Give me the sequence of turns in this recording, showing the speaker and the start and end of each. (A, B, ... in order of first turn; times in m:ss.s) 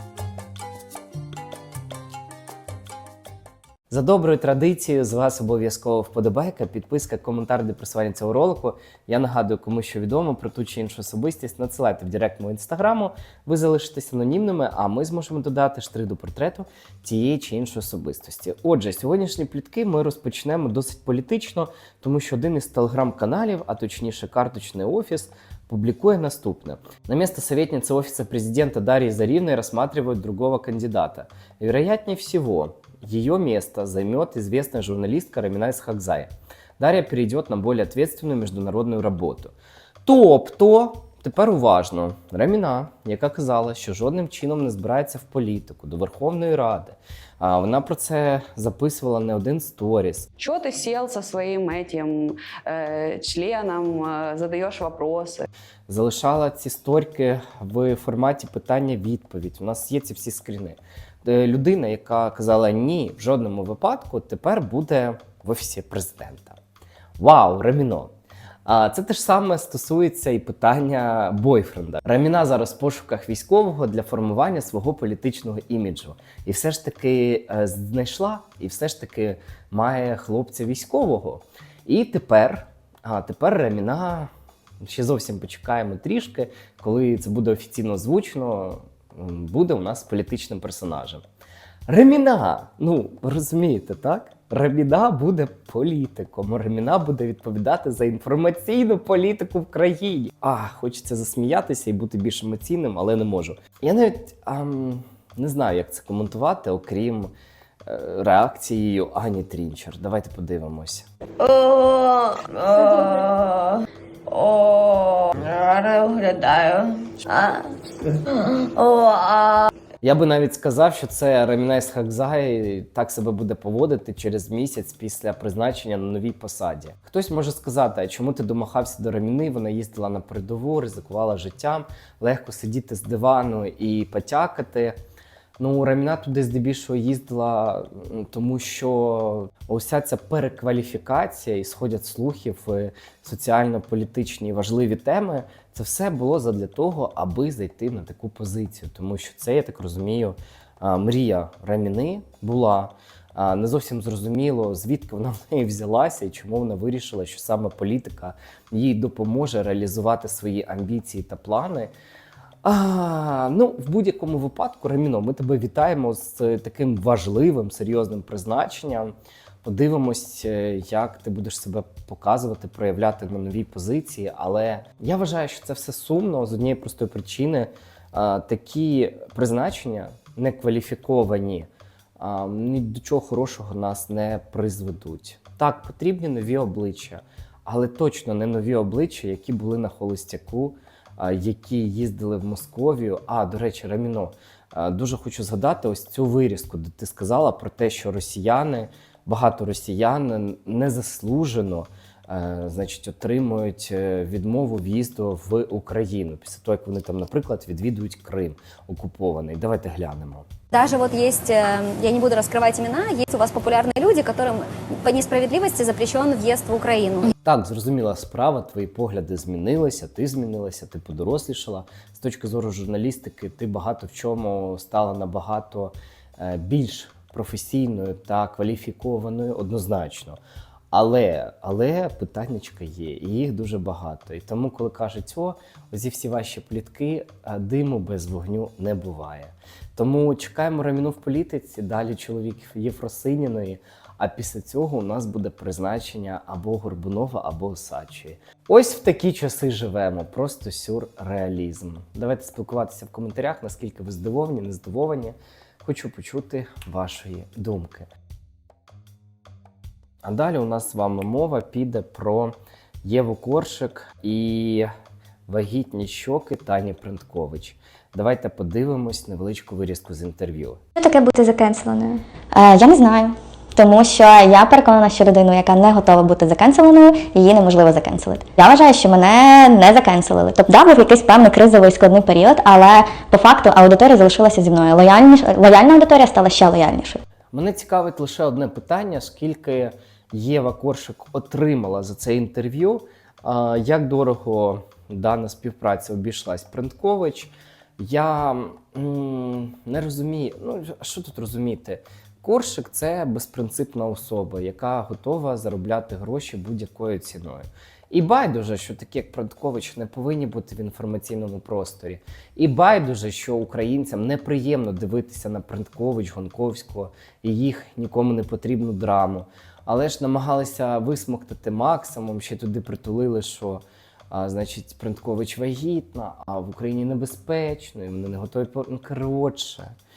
0:03.9-0:39.5 A
0:40.0-0:50.3 A
0:50.4-0:55.5 B
0:55.9-1:06.6 A
1:07.2-1:08.1 A
1:08.7-1:24.3 A
1:24.8-1:31.2 A
1:31.9-1:47.3 A
1:47.8-1:51.0 A
1:51.4-1:52.5 C
1:51.6-1:53.7 D
1:54.3-1:56.5 C
1:54.5-1:59.6 D
1:58.6-1:59.6 C
2:00.0-2:15.0 A
2:15.6-2:41.9 A
2:42.6-3:01.7 A
3:02.2-3:30.5 A
3:30.7-3:37.3 C
3:37.4-3:50.4 A
3:50.9-4:18.1 A
4:20.2-4:24.9 A
4:25.5-4:30.8 A
4:31.0-4:47.2 E
4:47.5-5:29.9 A